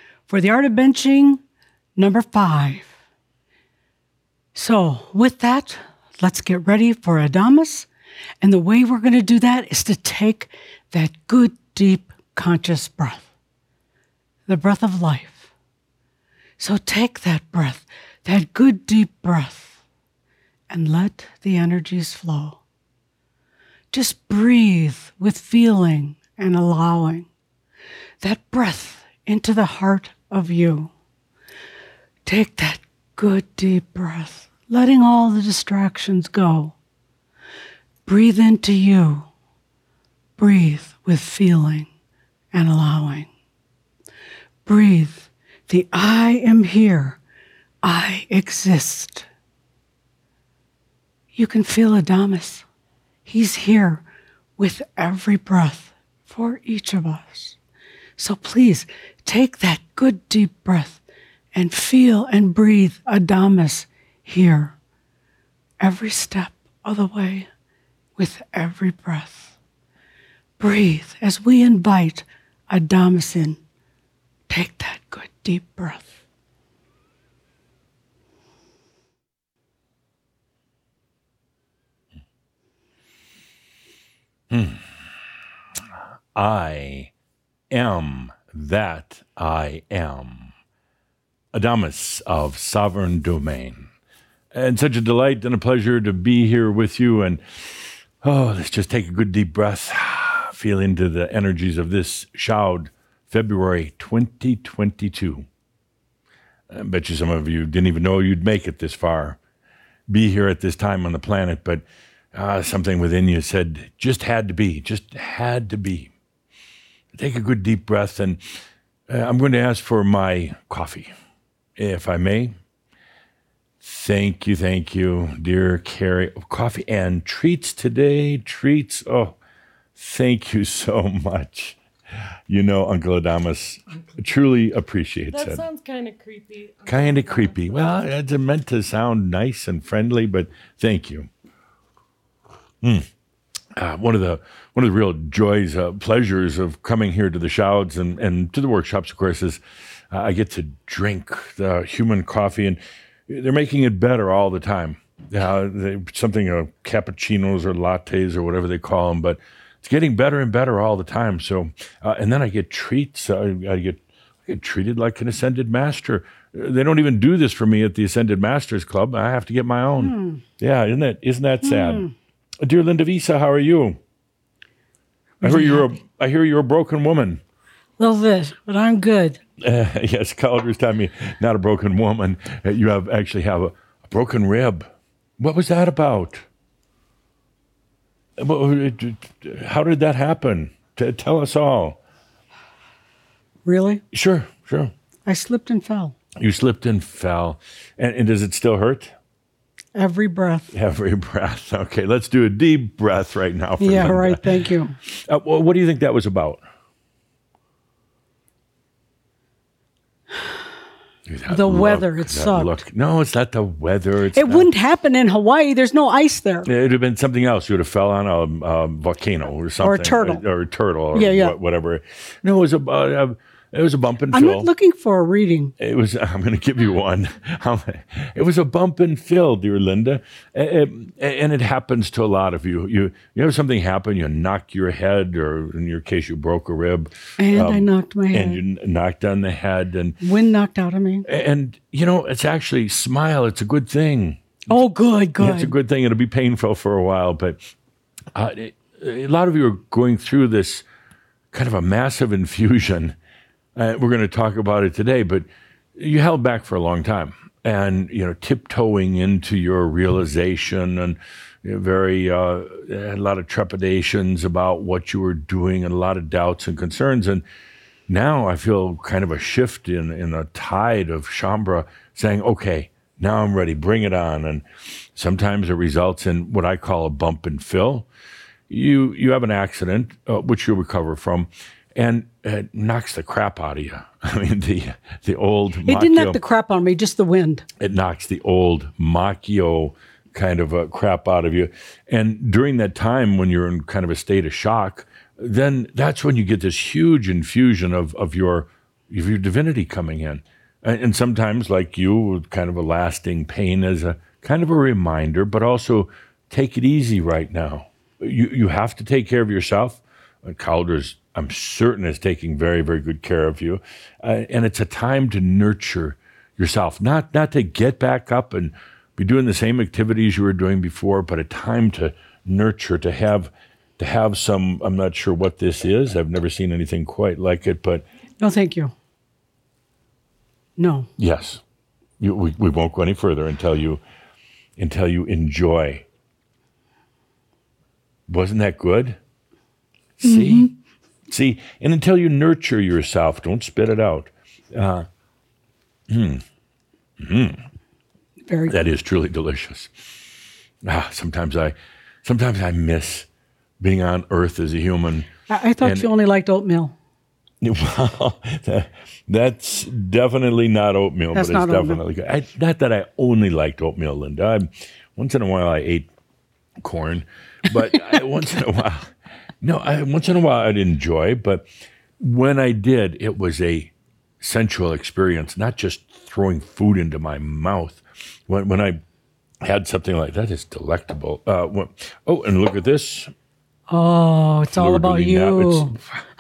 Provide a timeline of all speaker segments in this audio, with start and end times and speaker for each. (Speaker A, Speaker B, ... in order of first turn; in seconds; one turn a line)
Speaker A: 0.3-1.4
Speaker A: 2.0-2.9
Speaker A: 4.5-7.9
Speaker A: 8.4-13.3
Speaker A: 14.5-15.5
Speaker A: 16.6-19.7
Speaker A: 20.7-22.6
Speaker A: 23.9-27.3
Speaker A: 28.2-30.9
Speaker A: 32.3-36.8
Speaker A: 38.1-39.3
Speaker A: 40.4-41.9
Speaker A: 42.5-43.3
Speaker A: 44.7-47.2
Speaker A: 47.8-49.3
Speaker A: 51.4-52.7
Speaker A: 53.3-54.0
Speaker A: 54.6-57.6
Speaker A: 58.2-61.0
Speaker A: 61.5-64.8
Speaker A: 65.8-67.5
Speaker A: 68.2-69.5
Speaker A: 70.6-73.6
Speaker A: 74.5-76.1
Speaker B: 84.5-84.8
Speaker B: 86.3-87.1
Speaker B: 87.7-90.5
Speaker B: 91.5-93.9
Speaker B: 94.5-105.5
Speaker B: 106.7-109.4
Speaker B: 110.1-116.1
Speaker B: 117.1-118.4
Speaker B: 119.1-121.1
Speaker B: 121.8-122.6
Speaker B: 123.8-129.4
Speaker B: 130.0-131.8
Speaker B: 132.5-135.6
Speaker C: 135.3-138.1
Speaker B: 136.9-141.3
Speaker B: 142.8-143.1
Speaker B: 143.8-172.1
Speaker A: 170.0-170.4
Speaker A: 171.6-172.1
Speaker B: 172.6-174.0
Speaker A: 175.4-175.9
Speaker B: 175.4-177.4
Speaker A: 178.0-179.4
Speaker B: 179.6-186.4
Speaker B: 188.4-192.0
Speaker A: 193.7-194.0
Speaker B: 194.1-194.9
Speaker A: 195.3-196.2
Speaker B: 196.4-199.2
Speaker A: 199.9-200.7
Speaker B: 200.7-206.6
Speaker A: 203.8-205.0
Speaker B: 211.3-214.7
Speaker A: 211.5-212.8
Speaker A: 214.3-216.7
Speaker B: 216.7-224.7
Speaker A: 219.8-220.4
Speaker A: 221.2-221.6
Speaker A: 224.3-225.7
Speaker B: 225.8-240.2
Speaker A: 237.4-238.6
Speaker A: 240.2-241.3
Speaker B: 241.3-244.5
Speaker A: 244.7-245.7
Speaker B: 245.4-247.7
Speaker B: 248.3-250.8
Speaker B: 251.5-253.2
Speaker B: 253.8-267.4
Speaker B: 268.1-278.1
Speaker B: 278.7-286.4
Speaker A: 285.9-287.7
Speaker B: 287.8-328.1
Speaker A: 328.4-328.9
Speaker A: 330.8-331.1
Speaker B: 331.2-331.6
Speaker B: 332.2-334.0
Speaker B: 334.8-336.1
Speaker B: 338.3-339.2
Speaker B: 340.2-340.7
Speaker A: 340.2-340.7
Speaker B: 341.3-345.1
Speaker B: 346.1-346.4
Speaker B: 347.2-347.6
Speaker A: 348.5-348.8
Speaker B: 348.7-349.9
Speaker B: 350.8-353.3
Speaker B: 353.8-355.3
Speaker A: 355.5-356.9
Speaker B: 355.8-356.1
Speaker B: 357.6-366.1
Speaker A: 361.3-362.0
Speaker B: 366.8-371.7
Speaker B: 372.2-379.0
Speaker B: 379.6-383.3
Speaker A: 383.9-386.0
Speaker B: 384.7-386.2